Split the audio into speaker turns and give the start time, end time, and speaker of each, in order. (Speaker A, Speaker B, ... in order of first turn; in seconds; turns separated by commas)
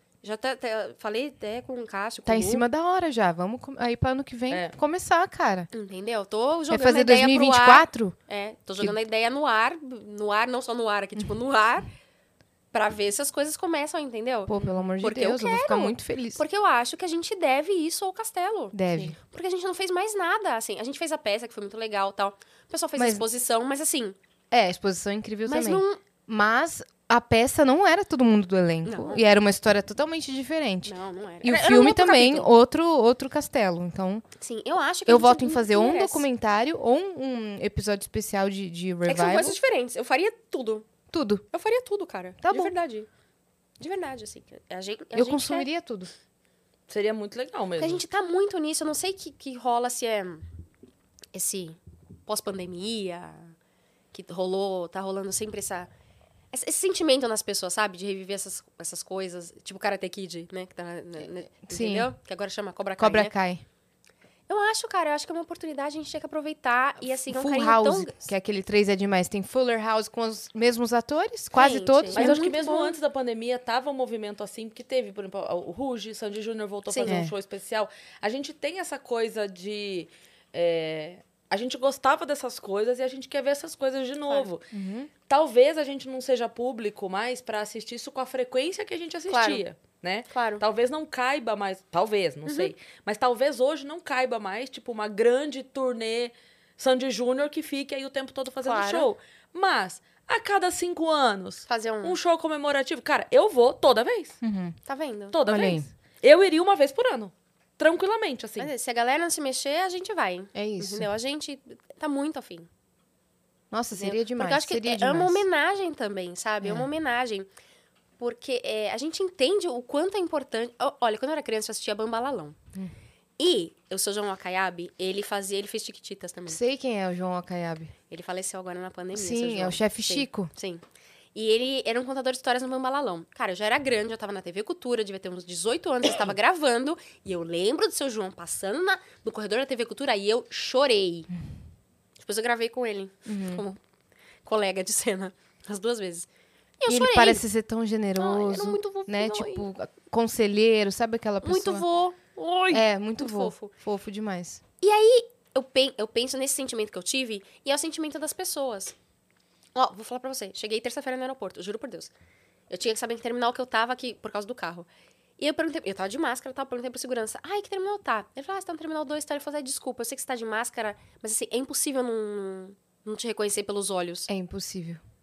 Speaker A: 0.2-2.7, Speaker B: 2.2-5.7, Speaker C: 4.5-4.8, Speaker A: 5.7-11.9, Speaker B: 6.7-8.2, Speaker A: 12.7-24.2, Speaker B: 14.5-16.4, Speaker B: 18.7-19.2, Speaker B: 23.0-23.2, Speaker B: 24.5-34.2, Speaker A: 25.5-26.0, Speaker A: 28.8-29.2, Speaker A: 30.9-32.5, Speaker A: 34.4-36.3, Speaker B: 35.1-39.6, Speaker A: 39.1-40.9, Speaker B: 41.1-41.4, Speaker A: 41.5-43.1, Speaker B: 42.4-42.7, Speaker A: 43.8-45.7, Speaker B: 45.1-46.1, Speaker C: 46.9-48.0, Speaker A: 47.8-50.4, Speaker A: 51.3-53.5, Speaker A: 54.1-55.9, Speaker A: 56.5-63.3, Speaker B: 61.7-62.1, Speaker B: 63.0-63.6, Speaker A: 64.5-68.3, Speaker B: 67.3-72.5, Speaker A: 71.5-73.0, Speaker C: 72.1-84.7, Speaker A: 76.9-77.2, Speaker B: 77.1-77.3, Speaker B: 84.7-85.1, Speaker C: 85.3-104.4, Speaker A: 89.3-89.6, Speaker A: 90.3-90.6, Speaker A: 92.5-92.7, Speaker A: 98.6-99.1, Speaker A: 101.7-102.2, Speaker B: 104.4-104.8, Speaker A: 104.9-105.4, Speaker C: 105.3-108.7, Speaker B: 105.5-105.9, Speaker A: 108.6-112.7, Speaker B: 110.5-111.1, Speaker B: 113.7-115.5, Speaker A: 113.9-117.5, Speaker B: 116.6-116.9, Speaker A: 118.2-122.6, Speaker A: 123.4-126.6, Speaker B: 126.5-127.9, Speaker A: 128.1-130.8, Speaker B: 129.1-130.5, Speaker A: 131.3-141.3, Speaker A: 142.2-143.8, Speaker B: 143.3-143.6, Speaker A: 144.4-146.3, Speaker A: 146.8-147.4, Speaker B: 146.9-151.8, Speaker A: 148.2-149.7, Speaker A: 151.4-153.7, Speaker B: 152.7-154.6, Speaker A: 154.8-159.0, Speaker A: 159.8-162.1, Speaker A: 162.7-174.3, Speaker B: 174.3-175.0